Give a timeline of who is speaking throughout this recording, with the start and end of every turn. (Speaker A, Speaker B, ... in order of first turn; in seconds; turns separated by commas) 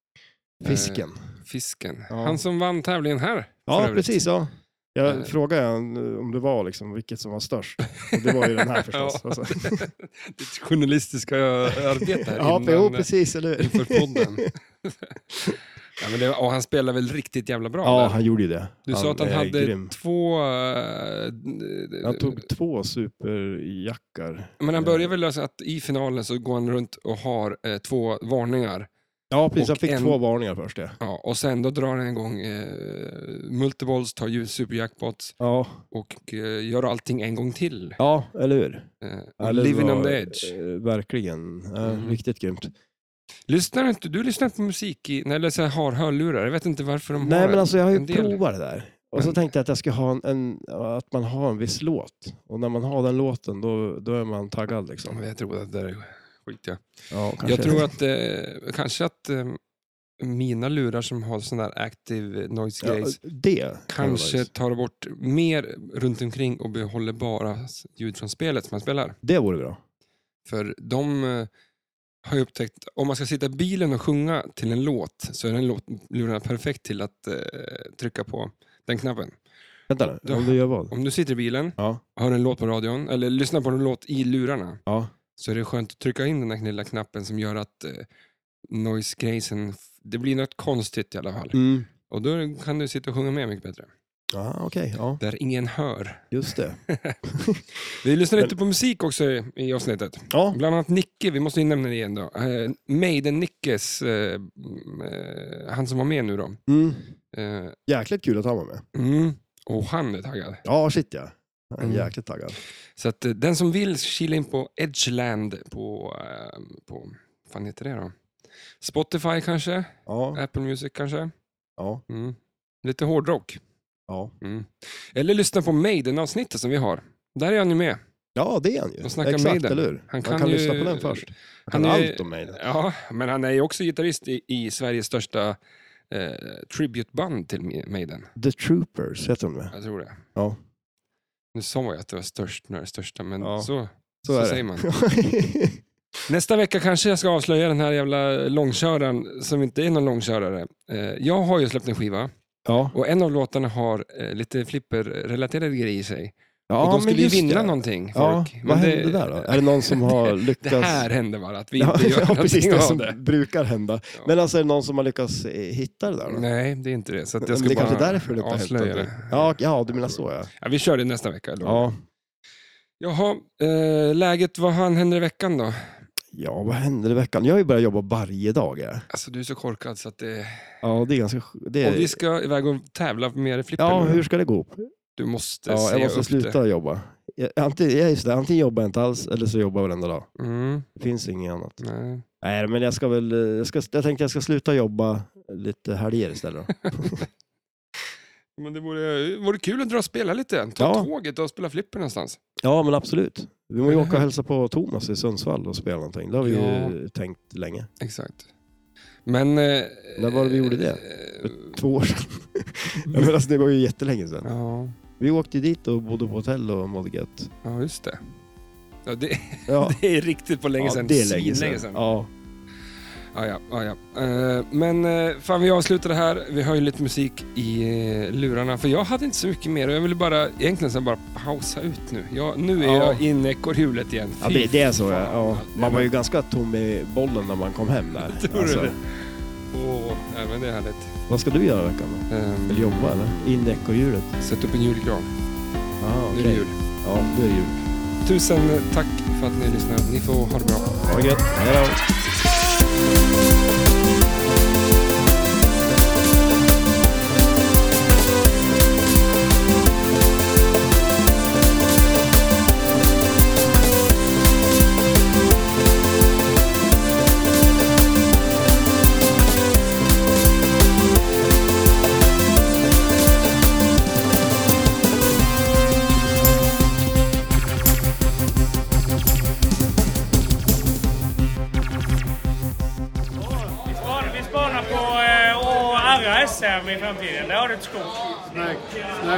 Speaker A: 0.6-1.2, Speaker B: 0.6-4.2, Speaker A: 2.1-2.4, Speaker A: 3.7-9.8, Speaker B: 5.0-5.3, Speaker B: 8.0-15.1, Speaker A: 11.7-14.5, Speaker B: 15.9-18.2, Speaker A: 17.8-19.9, Speaker B: 18.9-22.4, Speaker A: 22.0-25.1, Speaker B: 24.6-28.9, Speaker A: 29.3-30.9, Speaker B: 29.6-30.2, Speaker B: 31.0-35.3, Speaker A: 35.4-35.8, Speaker B: 35.9-38.0, Speaker A: 38.0-38.9, Speaker B: 39.0-40.6, Speaker A: 39.4-42.7, Speaker B: 41.8-42.2, Speaker B: 43.5-48.4, Speaker A: 47.2-55.2, Speaker B: 55.1-56.8, Speaker A: 57.1-57.9, Speaker B: 57.4-59.6, Speaker B: 60.2-63.2, Speaker A: 62.8-64.5, Speaker B: 63.9-69.2, Speaker A: 69.2-69.8, Speaker B: 70.5-71.5, Speaker B: 72.2-79.3, Speaker A: 79.9-80.9, Speaker B: 80.2-84.8, Speaker A: 84.8-85.1, Speaker B: 85.3-88.0, Speaker B: 88.7-93.9, Speaker A: 91.5-91.9, Speaker A: 94.3-95.2, Speaker B: 95.2-96.3, Speaker A: 96.3-97.6, Speaker B: 96.8-97.2, Speaker B: 98.0-106.6, Speaker A: 100.3-100.6, Speaker A: 106.7-107.0, Speaker B: 107.3-107.8, Speaker A: 107.9-108.8, Speaker B: 108.9-110.6, Speaker A: 110.6-112.6, Speaker B: 111.8-112.1, Speaker B: 112.9-118.1, Speaker B: 118.8-121.3, Speaker A: 120.1-120.4, Speaker B: 122.1-123.6, Speaker B: 124.4-128.0, Speaker A: 128.3-132.6, Speaker B: 129.0-135.6, Speaker B: 136.1-138.3, Speaker A: 138.3-139.7, Speaker B: 139.7-140.2, Speaker B: 141.5-144.9, Speaker A: 143.4-143.7, Speaker A: 144.2-145.8, Speaker B: 146.3-152.3, Speaker A: 152.7-152.9, Speaker B: 152.9-163.2, Speaker A: 156.7-161.1, Speaker A: 161.8-166.4, Speaker B: 166.3-171.9, Speaker A: 167.4-170.5, Speaker A: 171.6-171.9, Speaker B: 173.0-175.9, Speaker A: 176.3-179.0, Speaker B: 179.1-180.8, Speaker A: 180.8-182.2, Speaker B: 181.8-184.2, Speaker A: 183.8-184.9, Speaker B: 185.2-186.6, Speaker A: 185.7-190.3, Speaker B: 190.4-190.9, Speaker A: 190.9-191.8, Speaker B: 191.8-192.2, Speaker A: 192.4-197.2, Speaker B: 198.6-202.4, Speaker A: 200.8-201.1, Speaker A: 202.6-207.9, Speaker B: 203.8-204.3, Speaker B: 206.4-206.9, Speaker B: 208.0-208.5, Speaker B: 209.2-211.8, Speaker A: 210.2-214.5, Speaker B: 213.1-213.3, Speaker B: 214.4-214.9, Speaker A: 215.2-217.5, Speaker B: 217.6-218.2, Speaker B: 219.1-222.0, Speaker A: 219.7-220.0, Speaker A: 220.8-222.3, Speaker B: 223.3-236.1, Speaker A: 232.8-233.2, Speaker A: 234.4-238.9, Speaker B: 238.1-241.1, Speaker A: 241.3-244.3, Speaker B: 242.3-243.3, Speaker B: 244.4-245.3, Speaker A: 246.0-247.7, Speaker B: 246.3-246.8, Speaker B: 248.2-251.0, Speaker A: 251.0-252.0, Speaker C: 283.9-288.1